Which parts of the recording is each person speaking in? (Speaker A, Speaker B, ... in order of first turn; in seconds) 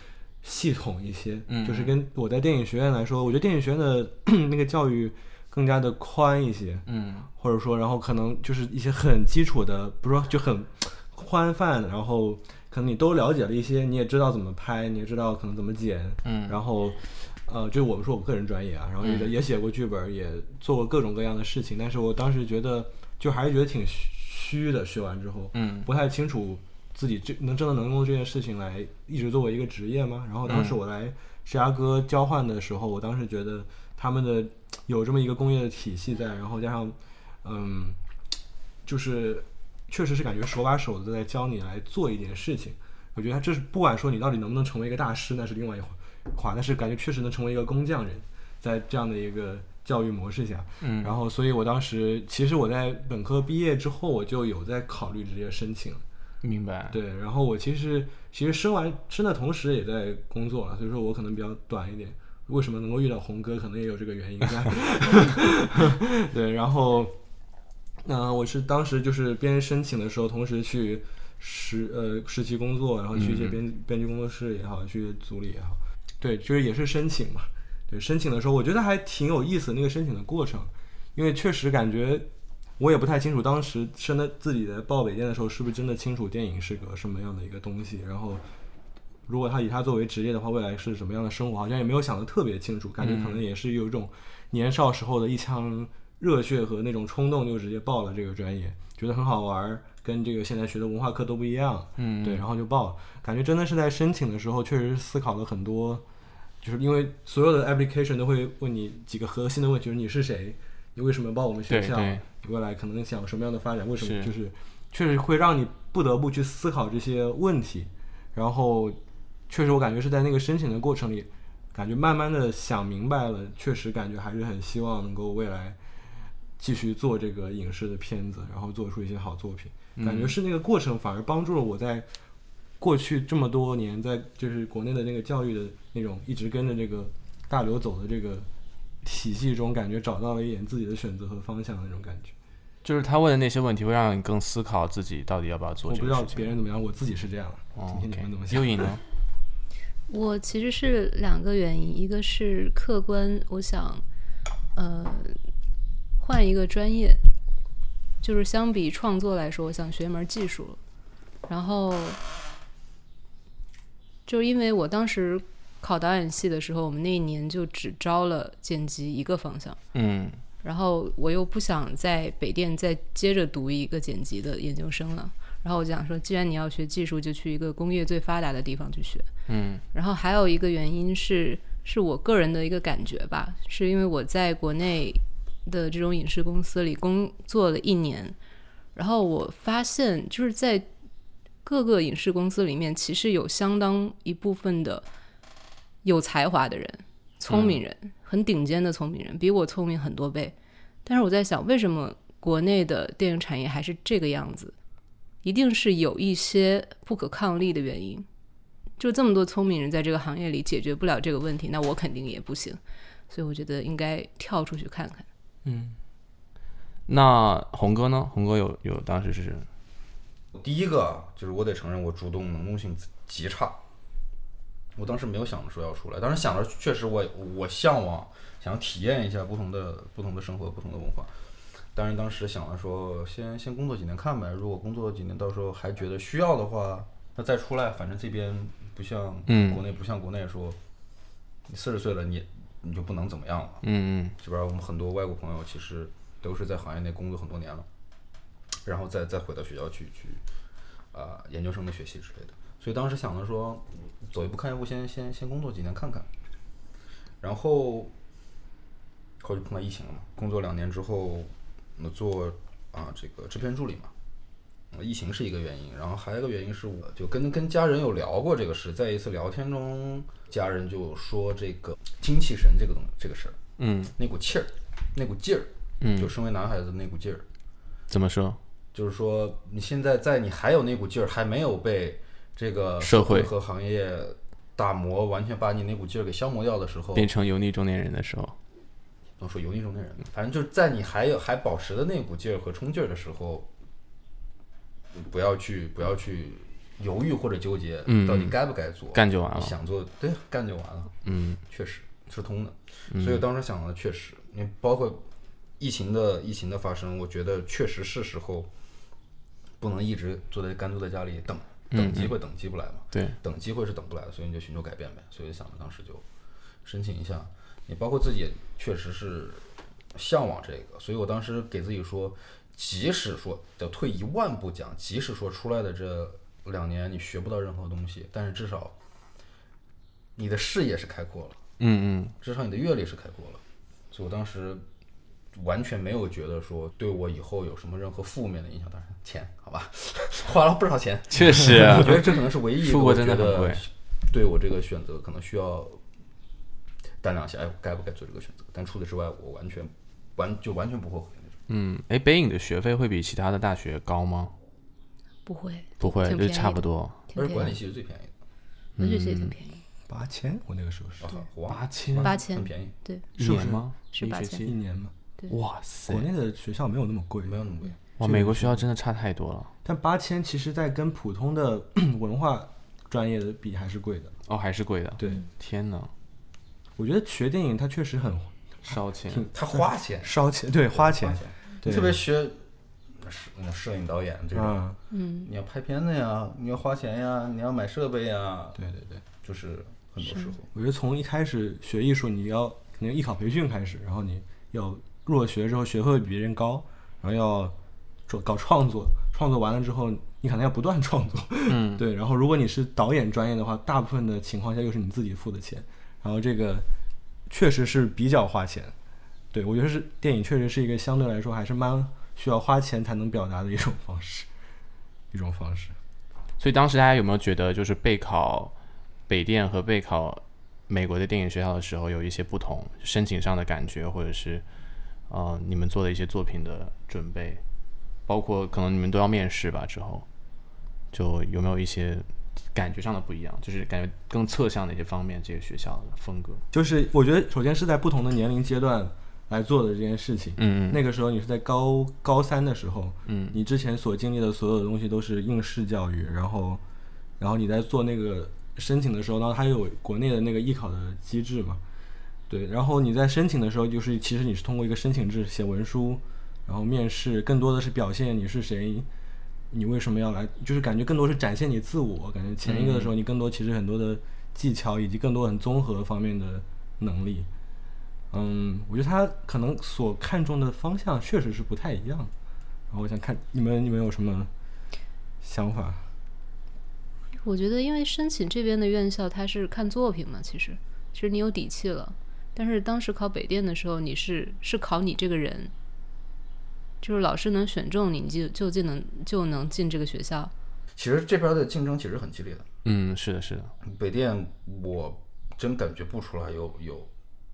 Speaker A: 0.4-38.0, 38.8-56.0, 56.9-67.2, 68.0-82.3, 82.8-88.4, 89.3-106.0, 106.6-125.8, 126.6-132.1, 132.8-138.5, 139.0-142.3, 145.9-148.9, 215.6-216.0, 360.1-361.3, 363.4-363.9, 364.6-365.1, 366.1-367.6, 368.2-368.9, 369.8-374.3, 377.0-382.2, 384.5-385.0, 388.8-389.2, 390.7-397.7, 398.3-406.9, 407.5-408.9, 409.5-414.5, 415.3-415.9, 436.7-446.8, 447.4-451.8, 452.5-459.1, 459.7-467.5, 468.3-472.3, 472.9-474.5, 475.4-476.1
Speaker B: 1.5-2.0, 6.8-7.3, 16.2-16.6, 19.0-19.3, 25.5-25.9, 30.4-30.8, 50.8-51.1, 56.4-57.0, 73.1-73.6, 93.0-93.4, 102.0-102.4, 111.7-112.2, 114.0-114.3, 129.9-130.3, 142.8-146.5, 147.7-149.0, 169.9-170.4, 179.5-179.8, 197.5-197.8, 217.1-219.7, 239.5-239.8, 243.8-244.3, 273.8-274.1, 276.0-276.3, 278.1-278.6, 283.0-283.5, 287.1-288.6, 298.1-298.6, 299.1-299.8, 301.2-301.6, 303.1-303.4, 311.9-312.4, 313.1-313.4, 331.8-332.3, 341.3-343.8, 351.7-354.5, 356.0-357.2, 359.0-359.5, 361.7-362.4, 363.4-364.7, 365.5-366.3, 368.2-369.7, 374.5-376.1, 378.8-379.5, 401.7-402.0, 416.6-418.7, 419.3-424.6, 425.3-427.6, 428.3-430.2, 431.1-436.6, 440.6-441.0, 443.2-443.6, 462.6-463.1, 492.8-493.7
Speaker C: 150.1-154.0, 154.8-155.4, 156.2-157.2, 158.2-160.8, 161.5-162.2, 164.3-169.8, 170.6-179.3, 179.9-188.3, 188.9-190.9, 191.6-195.0, 196.0-200.5, 201.1-204.7, 205.4-208.2, 209.0-212.8, 213.3-215.2, 355.4-357.8, 359.0-359.8, 362.2-363.3, 364.1-364.7, 385.1-385.5, 390.2-390.5, 477.4-485.7, 487.0-490.5
Speaker D: 220.5-223.8, 224.9-231.3, 231.9-240.8, 241.7-243.8, 244.4-247.9, 248.8-250.4, 251.1-256.3, 257.4-258.1, 259.4-264.1, 264.9-273.6, 274.1-277.5, 278.9-287.3, 289.4-293.7, 295.1-301.1, 301.7-305.3, 305.8-308.7, 309.8-316.2, 316.8-328.9, 330.4-331.6, 332.4-334.8, 335.5-346.0, 347.2-351.6, 357.3-358.3, 361.2-362.9, 367.4-368.0, 379.5-382.6, 383.1-384.8, 385.4-388.8, 389.4-390.7, 490.9-492.6, 493.8-497.1